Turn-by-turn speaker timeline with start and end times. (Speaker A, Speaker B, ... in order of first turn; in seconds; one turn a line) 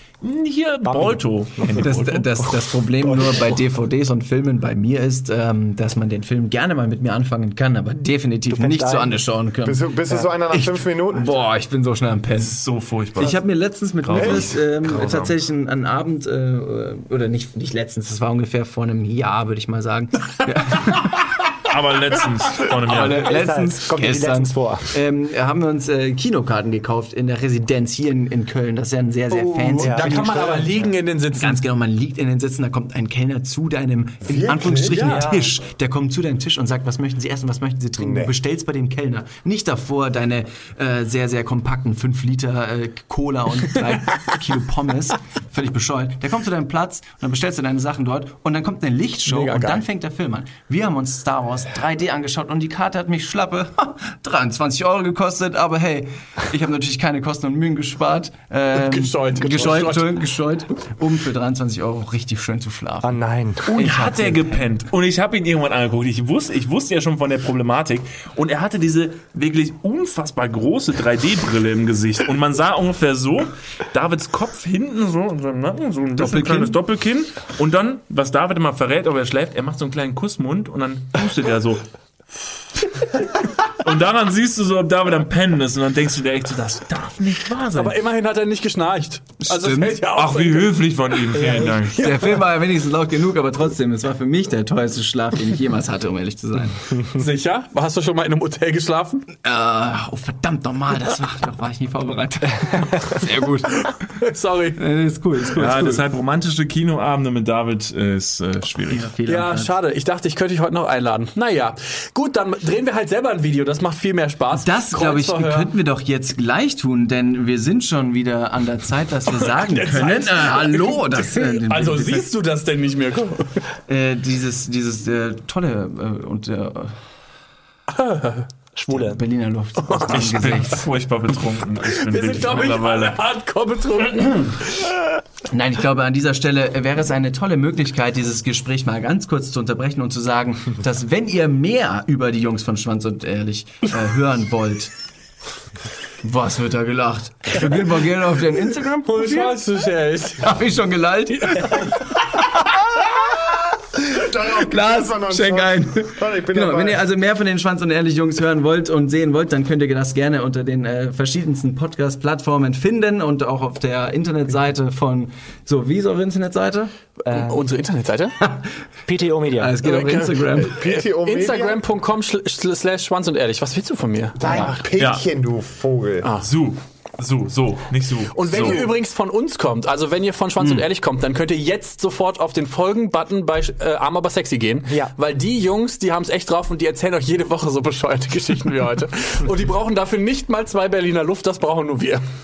Speaker A: 0.2-2.4
Speaker B: 0.8-1.8
Speaker C: 1.8-12.6
Speaker B: 8.5-9.2
Speaker D: 9.6-11.3
Speaker A: 12.3-13.4
Speaker C: 13.2-21.4
Speaker A: 14.0-15.3
Speaker E: 14.2-14.5
Speaker A: 21.6-23.3
Speaker C: 22.7-30.7
Speaker B: 23.2-24.9
Speaker E: 29.3-31.6
Speaker B: 29.8-30.4
Speaker D: 29.9-30.9
Speaker C: 31.3-63.2
Speaker D: 34.2-35.2
Speaker E: 34.9-35.3
Speaker B: 35.0-35.5
Speaker D: 38.0-38.3
Speaker E: 49.2-49.8
Speaker E: 58.7-60.2
Speaker B: 63.0-64.1
Speaker A: 63.7-81.8
Speaker C: 63.8-64.6
Speaker C: 76.2-76.8
Speaker A: 83.7-88.0
Speaker E: 87.7-92.4
Speaker C: 89.4-90.0
Speaker A: 90.1-92.0
Speaker C: 91.7-97.0
Speaker E: 97.0-99.2
Speaker C: 99.4-104.1
Speaker E: 103.9-104.8
Speaker C: 104.8-106.0
Speaker A: 105.5-109.1
Speaker C: 108.9-109.7
Speaker E: 109.2-115.7
Speaker C: 114.5-122.3
Speaker E: 119.4-123.7
Speaker C: 123.9-127.0
Speaker E: 127.9-128.5
Speaker B: 128.8-129.2
Speaker C: 128.9-130.9
Speaker A: 130.1-133.2
Speaker E: 131.8-135.1
Speaker C: 135.5-144.9
Speaker C: 146.2-149.6
Speaker E: 149.1-150.5
Speaker C: 150.4-166.9
Speaker E: 151.5-151.8
Speaker D: 154.0-157.0
Speaker B: 167.3-167.6
Speaker E: 167.3-168.4
Speaker C: 168.4-168.7
Speaker B: 169.1-169.8
Speaker C: 169.5-170.8
Speaker E: 169.8-174.8
Speaker D: 170.6-171.8
Speaker D: 174.3-176.3
Speaker B: 174.4-174.8
Speaker A: 175.0-175.2
Speaker A: 176.4-178.9
Speaker E: 178.3-192.2
Speaker C: 180.6-180.8
Speaker B: 184.9-185.1